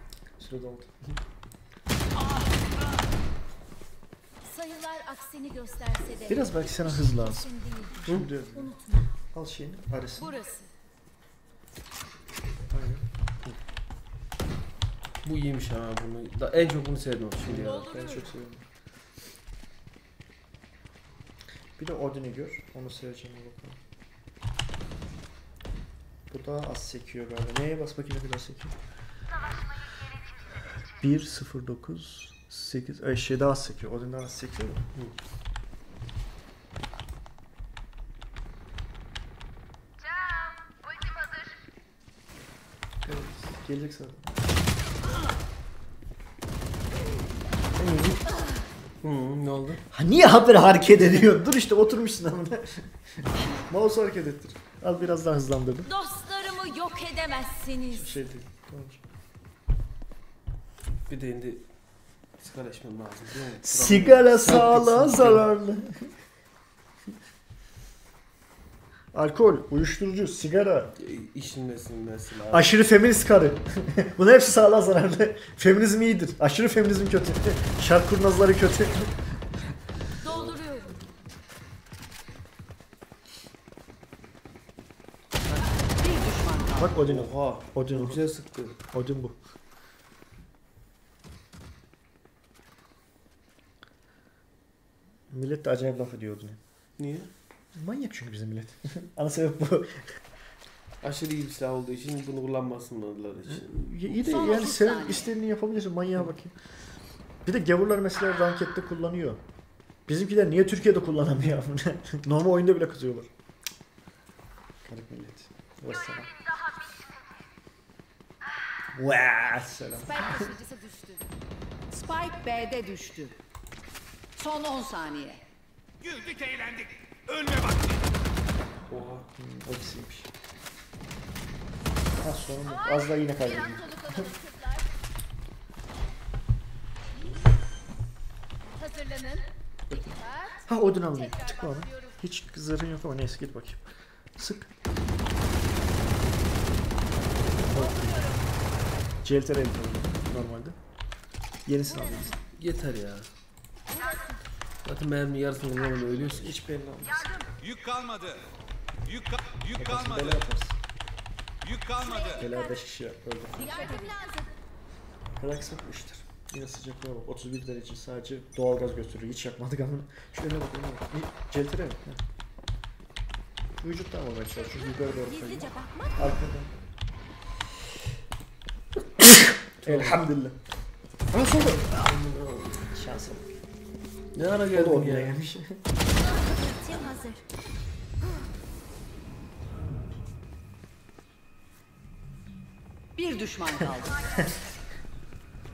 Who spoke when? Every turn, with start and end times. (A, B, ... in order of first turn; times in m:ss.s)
0:00.4-0:01.2 A
0:04.4-0:09.1 B
0:06.2-0:07.5 A
0:08.0-0:08.7 A
0:09.3-0:10.4 A
0:10.2-0:10.7 B
0:12.7-0:13.0 A
0:15.2-0:18.0 C
0:17.4-0:18.6 A
0:17.6-0:18.3 B
0:21.8-0:23.8 A
0:26.3-0:28.8 A
0:31.0-0:34.8 A
0:43.0-0:44.6 A
0:47.7-0:48.2 A
0:49.0-0:49.8 C
0:49.9-0:52.9 A
0:53.5-0:55.9 A
0:55.8-0:58.1 B
0:57.9-0:59.0 A
1:01.1-1:01.6 C
1:02.4-1:05.4 C
1:03.6-1:06.1 A
1:09.1-1:10.9 A
1:11.0-1:12.7 C
1:12.5-1:19.8 A
1:20.2-1:21.0 B
1:20.2-1:20.6 C
1:25.8-1:27.0 D
1:26.8-1:28.2 A
1:27.0-1:28.8 C
1:28.9-1:29.4 A
1:35.3-1:36.6 A
1:37.0-1:37.3 C
1:37.7-1:40.2 A
1:41.0-1:43.7 C
1:43.5-1:46.6 A
1:44.2-1:45.3 D
1:47.4-1:49.4 A
1:50.1-1:53.3 A
1:54.8-1:56.3 A
1:58.9-2:00.5 A
2:00.2-2:00.8 B
2:00.4-2:01.2 D
2:01.9-2:03.3 D
2:04.4-2:05.4 D
2:06.0-2:07.9 E
2:08.9-2:09.3 C
2:09.3-2:10.3 A
2:12.2-2:14.3 A
2:12.6-2:14.9 B
2:18.7-2:22.1 B
2:19.9-2:24.7 A
2:27.6-2:28.4 A
2:27.7-2:28.4 B
2:29.2-2:30.8 A
2:31.6-2:32.4 A
2:32.5-2:33.3 C
2:33.9-2:34.4 B
2:34.8-2:36.6 C
2:36.4-2:37.4 A
2:37.6-2:38.5 E
2:39.0-2:40.4 E
2:39.7-2:40.8 A
2:41.6-2:42.4 E
2:42.0-2:42.8 B
2:42.3-2:44.0 A
2:43.5-2:44.5 B
2:43.7-2:44.1 D
2:45.4-2:52.2 A
2:53.8-2:56.8 A
2:55.0-2:56.3 B
2:59.2-3:00.6 A
2:59.8-3:00.2 C
3:01.3-3:02.1 A
3:01.7-3:02.8 C
3:02.9-3:03.5 A
3:04.3-3:05.4 C
3:04.7-3:05.8 A
3:06.3-3:07.4 B
3:13.2-3:14.4 D